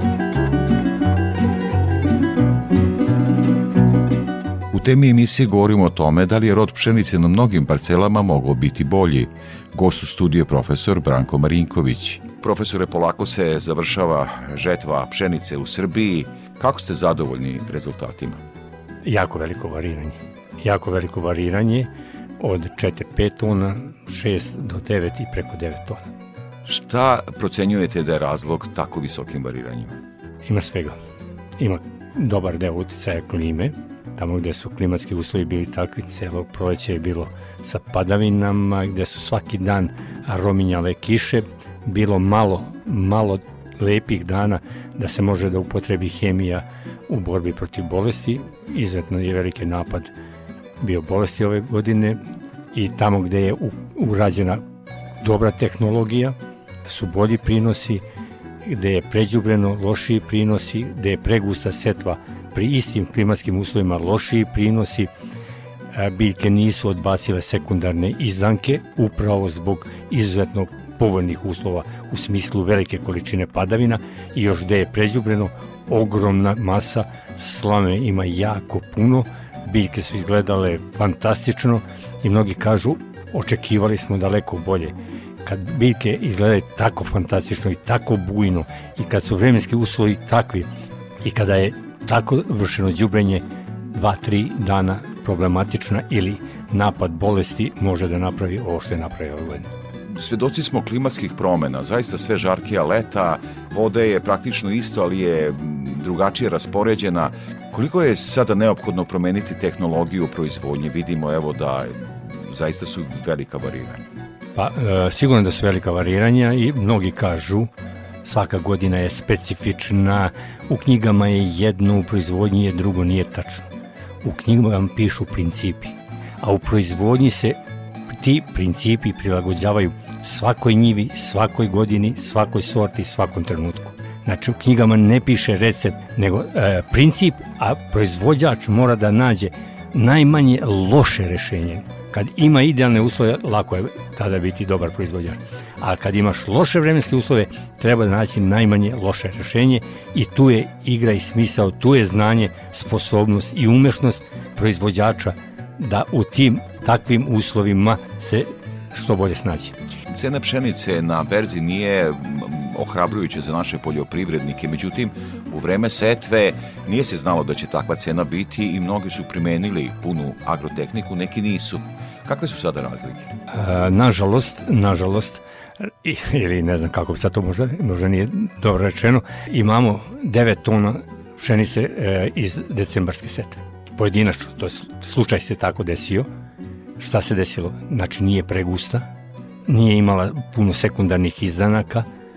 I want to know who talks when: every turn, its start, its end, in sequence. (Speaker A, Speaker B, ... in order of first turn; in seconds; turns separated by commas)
Speaker A: 4.7-18.4, Speaker B: 19.0-21.9, Speaker B: 22.4-26.0, Speaker A: 26.7-29.9, Speaker B: 30.4-31.0, Speaker B: 31.6-50.1, Speaker B: 50.8-52.2, Speaker B: 52.7-54.6, Speaker B: 55.2-58.0, Speaker B: 58.6-65.1, Speaker B: 65.9-90.7, Speaker B: 91.2-99.7, Speaker A: 100.1-114.0, Speaker B: 114.5-117.7, Speaker B: 118.2-123.7, Speaker B: 124.2-159.8, Speaker A: 160.1-173.3, Speaker B: 173.5-186.3, Speaker B: 187.0-189.1, Speaker B: 189.7-192.1